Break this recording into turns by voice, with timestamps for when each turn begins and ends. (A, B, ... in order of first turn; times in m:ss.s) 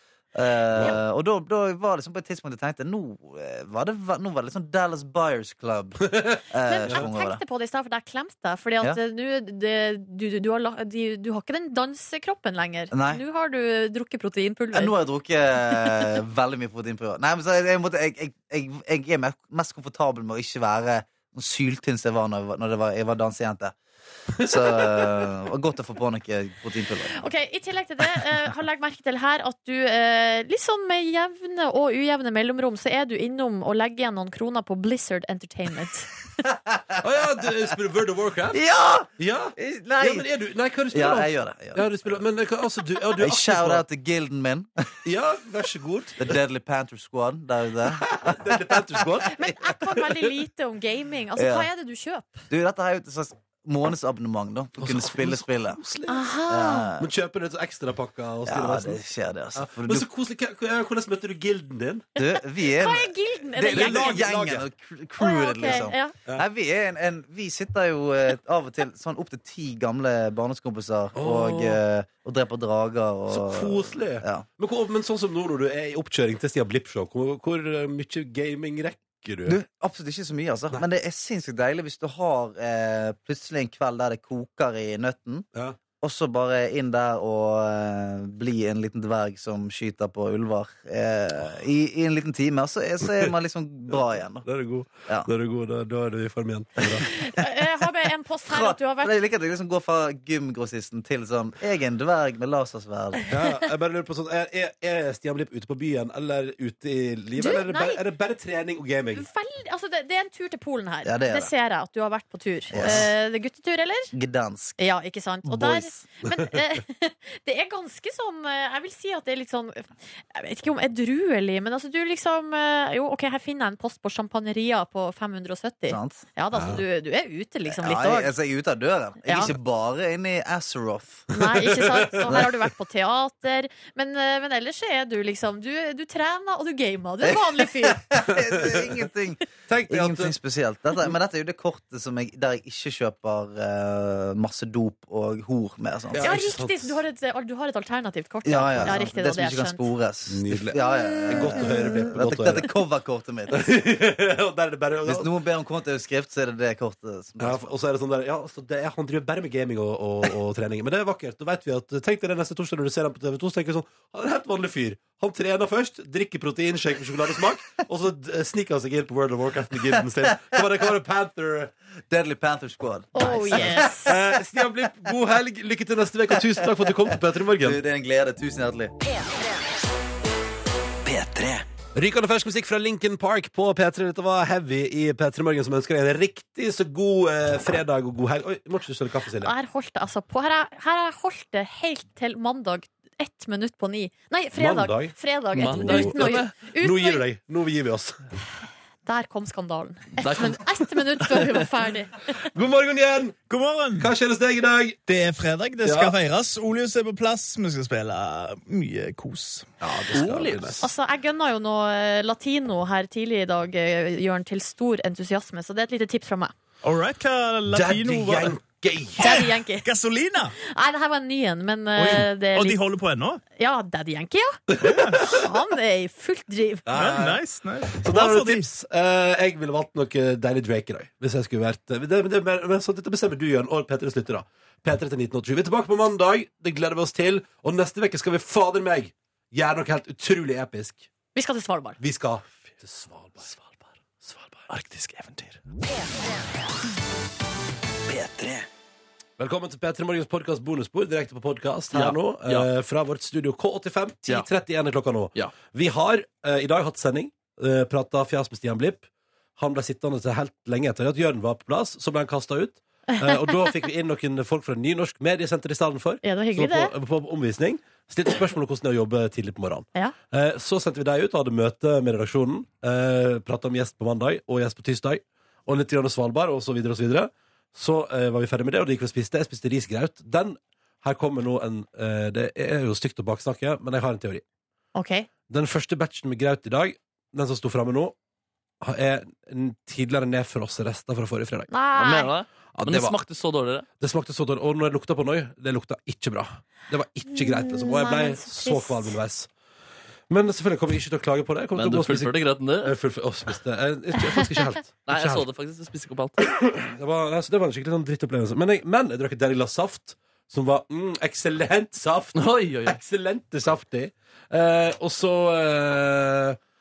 0:00.3-0:07.4 A
0:00.7-0:01.0 B
0:06.1-0:07.0 B
0:06.6-0:15.0 C
0:12.9-0:13.2 A
0:14.7-0:23.8 A
0:24.4-0:25.0 B
0:24.4-0:27.2 A
0:27.1-0:36.1 C
0:36.7-0:37.0 A
0:37.0-0:38.6 B
0:38.5-0:40.2 A
0:39.2-0:43.8 B
0:40.9-0:42.2 A
0:43.1-0:44.9 A
0:45.0-0:46.3 B
0:46.2-0:49.3 A
0:47.9-0:50.3 B
0:49.2-0:52.5 C
0:51.4-0:51.7 A
0:52.5-0:55.8 A
0:54.8-0:56.3 B
0:56.1-0:56.9 C
0:56.5-0:57.1 A
0:57.0-1:02.1 B
0:58.5-1:00.1 A
1:02.2-1:14.4 A
1:02.2-1:04.3 C
1:03.6-1:04.6 B
1:05.2-1:06.1 C
1:11.1-1:11.8 B
1:13.3-1:19.6 B
1:19.5-1:25.4 A
1:26.0-1:34.5 A
1:34.4-1:37.1 B
1:36.8-1:37.1 A
1:37.0-1:39.1 C
1:38.5-1:43.2 A
1:43.3-1:49.2 B
1:47.4-1:48.0 C
1:49.1-1:54.1 C
1:51.0-1:51.5 A
1:52.7-1:53.1 A
1:52.7-1:53.1 B
1:54.1-1:54.8 A
1:54.8-2:08.3 C
1:55.5-1:56.6 B
2:05.9-2:06.2 A
2:06.5-2:06.8 B
2:07.7-2:11.3 A
2:09.2-2:09.5 C
2:11.3-2:18.0 C
2:11.4-2:12.5 B
2:17.2-2:26.3 A
2:18.3-2:18.9 B
2:19.7-2:20.4 B
2:26.1-2:27.0 B
2:26.2-2:29.8 C
2:28.4-2:33.6 A
2:28.6-2:29.1 B
2:30.3-2:32.7 B
2:31.1-2:31.9 C
2:33.5-2:35.3 B
2:35.0-2:37.7 A
2:37.4-2:51.7 B
2:49.9-2:50.6 A
2:52.1-2:54.1 A
2:53.1-2:54.2 C
2:53.5-2:57.8 B
2:56.4-2:58.9 A
3:01.0-3:01.6 A
3:01.9-3:09.5 B
3:09.4-3:17.2 C
3:14.6-3:18.2 B
3:15.5-3:16.5 D
3:19.0-3:22.2 C
3:20.2-3:20.6 D
3:22.4-3:23.4 B
3:23.5-3:24.1 E
3:24.0-3:25.0 B
3:25.0-3:29.7 E
3:25.8-3:26.1 B
3:29.8-3:30.9 B
3:30.1-3:30.8 D
3:30.8-3:36.5 C
3:36.8-3:38.6 E
3:37.7-3:39.2 B
3:39.2-3:40.5 E
3:39.2-3:39.8 C
3:40.6-3:42.8 C
3:42.0-3:43.4 E
3:43.6-3:44.6 C
3:44.8-3:45.4 B
3:44.8-3:45.3 E
3:45.2-3:46.8 C
3:46.8-4:01.1 B
3:46.9-3:48.6 E
4:01.3-4:02.0 C
4:02.0-4:03.5 B
4:03.5-4:03.8 D
4:04.7-4:05.6 D
4:08.1-4:08.4 D
4:09.4-4:44.4 B
4:11.9-4:12.7 D
4:23.2-4:23.7 C
4:26.2-4:26.9 C
4:44.9-4:45.3 C
4:45.5-4:48.1 B
4:48.8-4:51.7 B
4:51.7-4:52.3 C
4:51.9-4:53.8 D
4:52.7-4:53.2 B
4:54.0-4:59.5 B
4:57.3-4:59.2 C
5:00.3-5:05.4 B
5:01.8-5:02.9 D
5:05.0-5:06.4 D
5:06.4-5:16.6 B
5:12.4-5:13.0 D